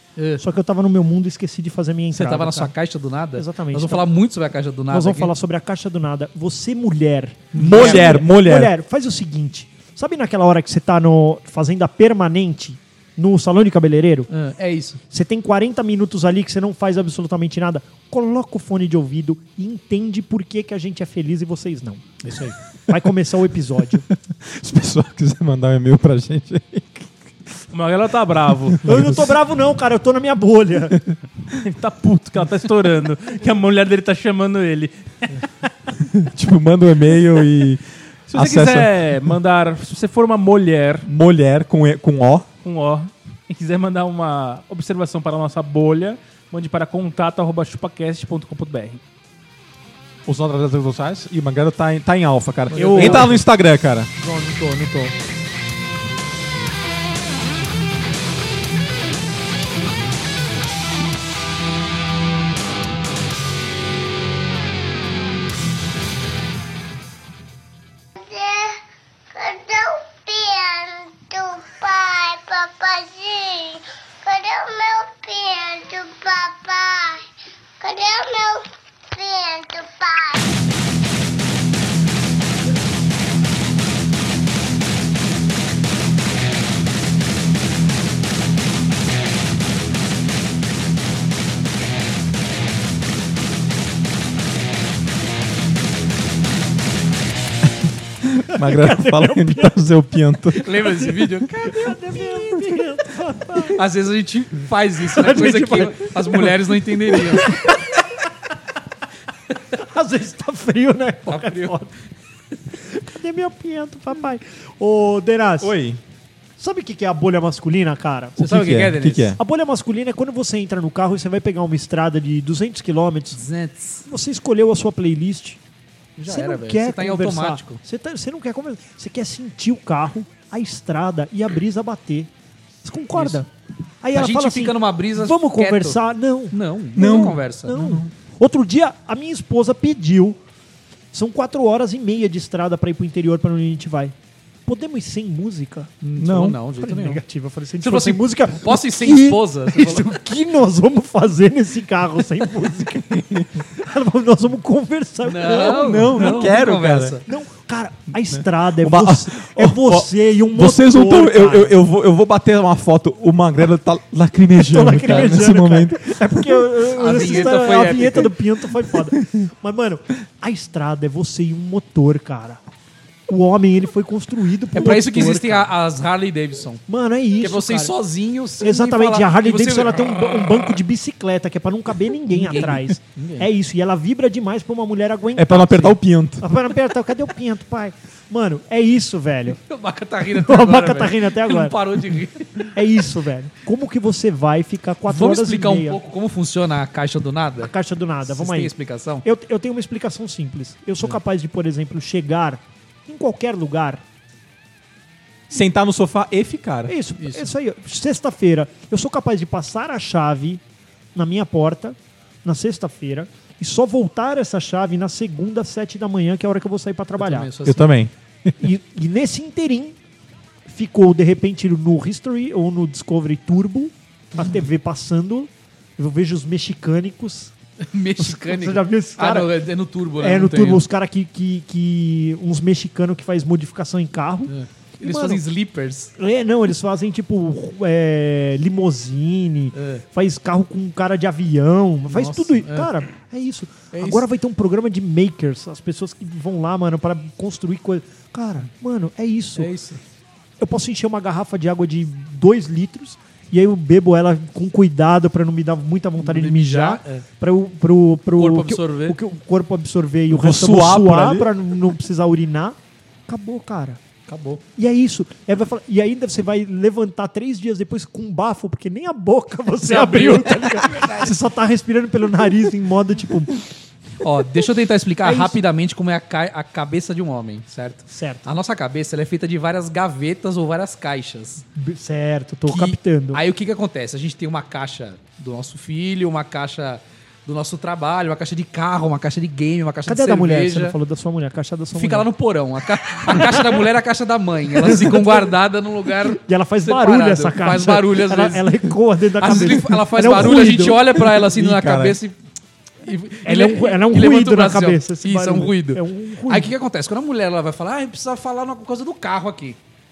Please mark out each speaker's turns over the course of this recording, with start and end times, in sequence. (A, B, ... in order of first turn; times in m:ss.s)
0:00.4-0:02.7 A
0:02.1-0:05.3 B
0:03.4-0:04.0 A
0:04.9-0:14.3 A
0:07.5-0:08.1 B
0:07.6-0:08.7 C
0:14.3-0:15.0 B
0:15.1-0:24.0 A
0:24.2-0:27.1 C
0:27.7-0:29.0 D
0:28.8-0:31.0 A
0:28.8-0:29.2 C
0:31.6-0:35.4 D
0:36.1-0:39.0 C
0:38.3-0:41.1 D
0:41.0-0:42.5 C
0:42.6-0:49.0 D
0:50.2-0:54.1 C
0:52.7-0:53.4 D
0:52.7-0:53.4 A
0:54.2-0:55.1 A
1:08.2-1:08.8 E
1:09.3-1:17.2 E
1:17.8-1:20.5 E
1:38.2-1:40.7 C
1:38.5-1:39.8 A
1:40.6-1:41.9 B
1:40.7-1:43.8 A
1:43.7-1:47.6 B
1:45.1-1:46.6 A
1:47.1-1:48.0 A
1:49.8-1:51.9 A
1:51.3-1:51.8 B
1:53.0-1:55.7 A
1:55.6-1:56.0 C
1:56.6-1:58.4 A
1:58.4-1:59.4 C
1:58.4-1:59.3 B
1:59.4-2:03.4 A
2:03.3-2:04.1 B
2:04.1-2:05.6 A
2:06.2-2:07.8 B
2:06.3-2:12.3 A
2:12.8-2:13.5 A
2:13.1-2:13.4 B
2:14.0-2:20.4 A
2:14.1-2:16.0 B
2:16.5-2:17.7 B
2:17.0-2:18.1 C
2:21.1-2:24.1 A
2:24.6-2:25.9 A
2:26.0-2:27.2 B
2:26.2-2:26.6 C
2:26.8-2:36.3 A
2:27.8-2:30.1 B
2:33.1-2:33.4 C
2:35.2-2:37.2 B
2:35.6-2:37.2 C
2:37.2-2:41.7 A
2:38.8-2:46.6 C
2:44.6-2:52.6 A
2:45.1-2:45.4 B
2:46.9-2:48.3 B
2:53.3-2:55.7 A
2:54.7-2:56.8 B
2:56.9-2:57.9 A
2:57.4-3:00.6 B
2:58.6-3:09.6 A
3:02.3-3:03.5 B
3:05.4-3:06.4 C
3:09.6-3:12.7 B
3:10.3-3:11.8 A
3:12.7-3:16.0 A
3:15.1-3:17.7 B
3:17.6-3:18.7 A
3:18.2-3:19.2 B
3:19.2-3:24.0 A
3:25.5-3:26.9 C
3:26.9-3:30.6 A
3:27.2-3:27.5 B
3:31.1-3:37.5 A
3:37.2-3:37.9 B
3:37.6-3:38.5 C
3:38.6-3:39.9 A
3:40.6-3:47.5 A
3:47.8-3:50.8 B
3:48.2-3:49.5 A
3:50.2-3:55.4 A
3:54.5-3:56.1 B
3:56.2-4:09.7 A
3:59.7-4:00.0 B
4:02.1-4:02.9 B
4:03.9-4:04.3 B
4:09.6-4:10.0 B
4:10.6-4:22.8 A
4:16.2-4:17.2 B
4:18.4-4:19.2 B
4:20.3-4:21.5 C
4:23.3-4:24.0 A
4:24.3-4:24.6 B
4:24.8-4:33.5 A
4:29.8-4:31.4 B
4:34.2-4:41.6 B
4:35.2-4:35.6 A
4:38.1-4:38.5 A
4:41.8-4:43.4 A
4:42.7-4:50.9 B
4:50.0-4:52.3 A
4:51.9-5:02.3 B
4:53.1-4:53.8 A
4:54.7-4:55.5 A
4:56.2-5:01.0 A
5:01.0-5:02.2 C
5:03.0-5:09.8 B
5:03.4-5:06.7 A